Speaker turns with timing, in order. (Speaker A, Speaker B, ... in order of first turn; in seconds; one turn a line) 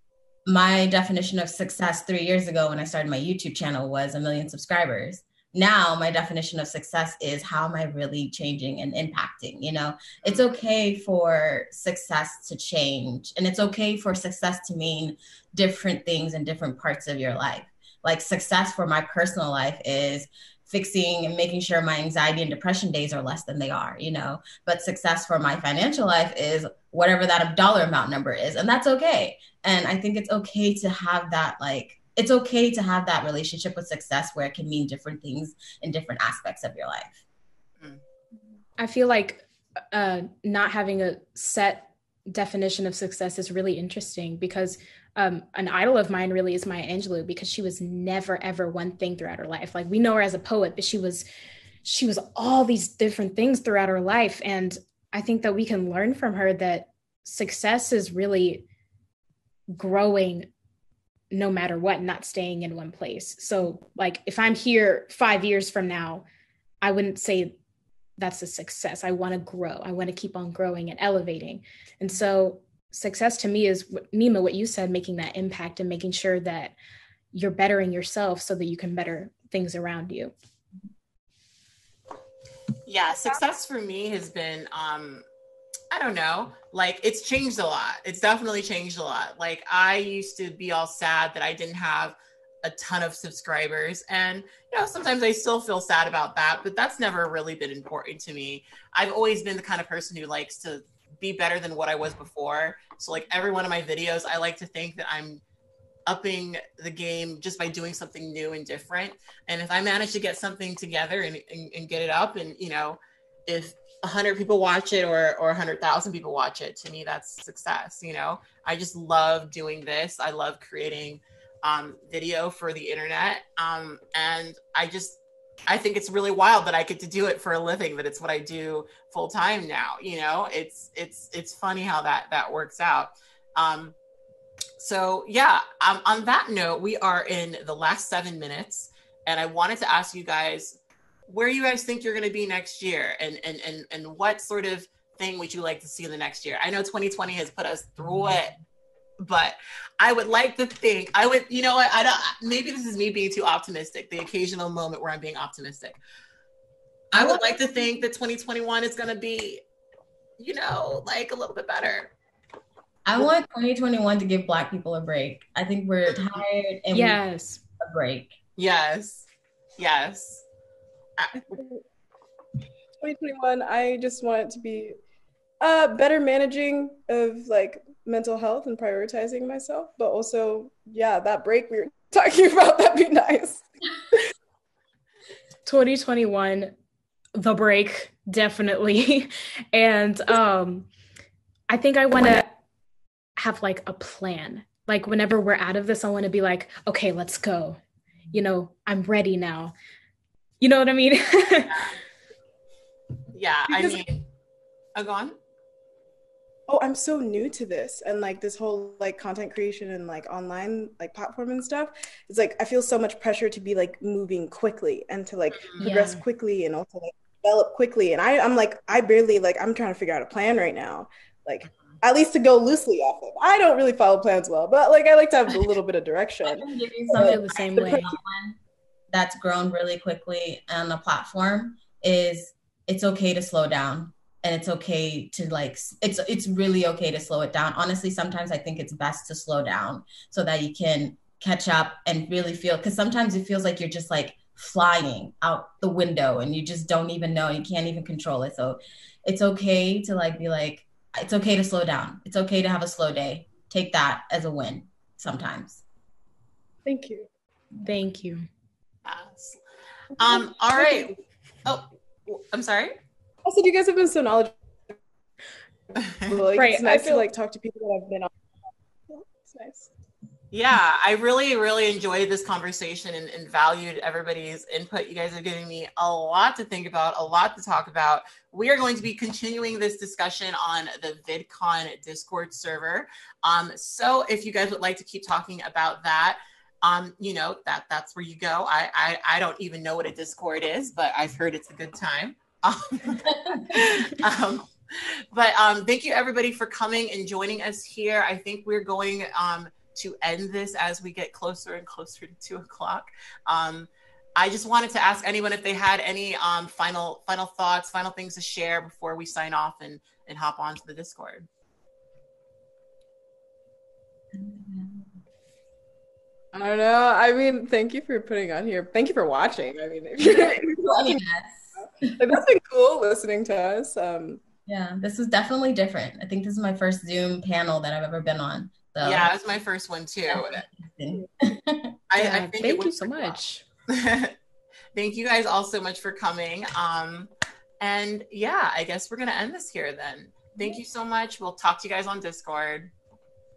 Speaker A: 0.5-37.2
Speaker B: 10.2-10.5
Speaker C: 38.8-51.3
Speaker C: 51.8-58.7
Speaker C: 59.7-60.5
Speaker C: 61.3-66.2
Speaker C: 66.8-67.6
Speaker C: 68.2-76.8
Speaker C: 77.3-80.3
Speaker B: 82.9-85.3
Speaker D: 83.1-83.4
Speaker B: 85.9-105.4
Speaker B: 106.1-133.9
Speaker B: 134.8-148.6
Speaker B: 149.2-156.0
Speaker B: 157.1-159.6
Speaker B: 160.4-162.1
Speaker A: 163.1-167.2
Speaker C: 166.9-167.6
Speaker A: 167.8-168.3
Speaker B: 168.6-169.2
Speaker B: 169.8-170.4
Speaker B: 171.2-171.5
Speaker D: 171.3-171.8
Speaker D: 173.0-174.9
Speaker D: 175.6-184.2
Speaker C: 185.7-186.7
Speaker C: 187.3-190.9
Speaker C: 191.7-192.6
Speaker C: 193.4-197.8
Speaker C: 198.3-199.7
Speaker C: 200.6-201.8
Speaker B: 201.7-202.0
Speaker B: 203.3-204.2
Speaker B: 205.0-205.3
Speaker D: 206.7-228.1
Speaker C: 215.8-216.2
Speaker A: 226.5-228.6
Speaker C: 227.1-228.1
Speaker A: 229.1-255.8
Speaker D: 256.9-257.3
Speaker C: 257.8-258.4
Speaker B: 259.1-259.6
Speaker B: 260.2-263.0
Speaker D: 260.8-261.1
Speaker D: 263.4-264.9
Speaker D: 266.2-268.3
Speaker C: 266.6-267.3
Speaker D: 269.1-269.9
Speaker B: 270.5-311.5
Speaker A: 293.2-293.7
Speaker A: 314.3-315.1
Speaker D: 316.5-321.2
Speaker A: 320.2-322.4
Speaker D: 321.8-324.4
Speaker A: 324.6-329.3
Speaker B: 329.0-330.6
Speaker A: 330.3-332.0
Speaker B: 332.1-334.4
Speaker C: 332.2-333.6
Speaker B: 334.9-342.9